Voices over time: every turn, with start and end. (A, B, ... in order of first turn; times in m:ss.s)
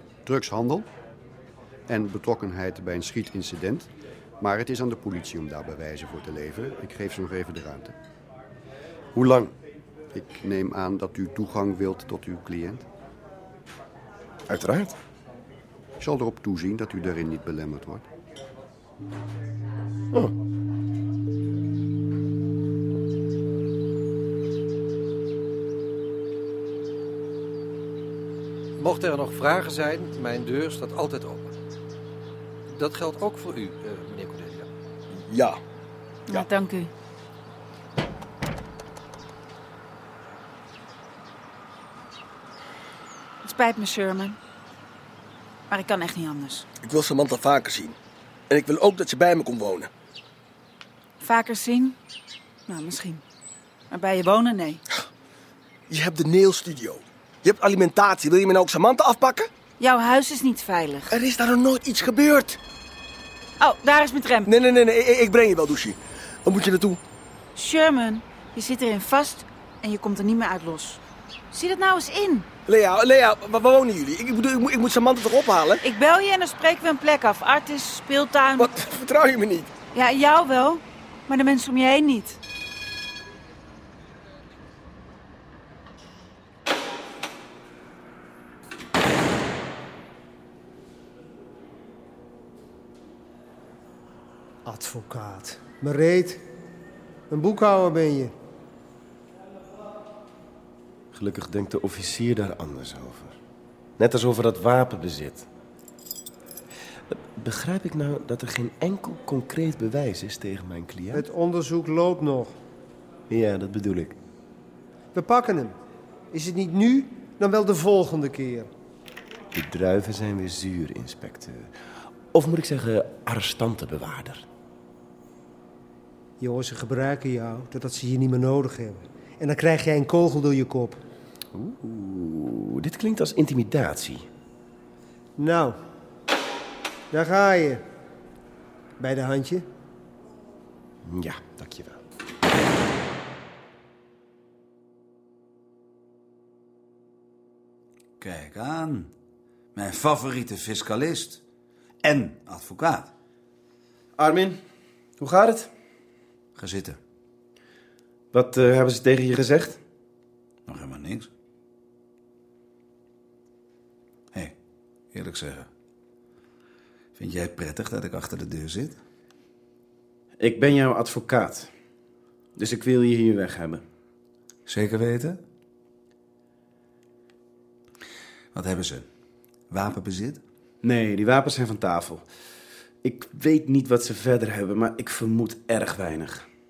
0:00.2-0:00.9 A
0:01.9-0:07.9 A
0:09.1-0:09.5 B
0:10.1-0:12.8 A
0:14.5-0:14.9 B
0:16.0-0:18.0 A
0:28.8-0:31.4 C
0:32.8-0:34.6 C
0:35.3-0:35.6 D
0:36.3-0:36.9 E
0:43.4-0:44.4 E
0:45.7-0:46.6 E
0:46.9-0:47.9 D
0:48.5-0:49.9 D
0:51.2-0:52.0 E
0:52.7-0:53.2 E
0:53.9-0:54.8 E
0:55.9-0:59.5 D
0:59.8-1:01.1 E
1:01.2-1:02.6 D
1:03.6-1:04.5 E
1:04.5-1:07.0 D
1:07.6-1:11.0 E
1:11.5-1:12.5 E
1:12.7-1:15.8 D
1:15.8-1:18.7 E
1:18.6-1:19.7 D
1:19.9-1:22.4 E
1:34.6-1:36.4 F
1:37.3-1:38.3 F
1:41.1-1:43.4 B
1:44.0-1:45.5 B
1:47.1-1:51.3 B
1:51.1-1:52.6 F
1:53.3-1:54.2 B
1:55.1-1:55.7 F
1:56.3-1:58.7 F
1:59.5-2:01.7 B
2:02.3-2:04.4 B
2:06.4-2:11.0 F
2:11.5-2:14.2 B
2:15.4-2:15.8 F
2:17.1-2:17.8 F
2:19.0-2:19.6 F
2:21.0-2:22.0 B
2:28.2-2:29.1 G
2:29.7-2:31.4 G
2:32.0-2:33.1 G
2:34.2-2:34.6 B
2:35.2-2:35.7 B
2:36.6-2:37.0 G
2:38.3-2:39.8 B
2:40.6-2:41.3 G
2:45.1-2:45.7 G
2:47.2-2:49.0 G
2:50.4-2:51.7 B
2:52.6-2:53.8 B
2:54.6-2:55.4 G
2:58.5-2:59.0 G
2:59.7-3:00.4 G
3:00.8-3:02.2 B
3:03.0-3:06.4 B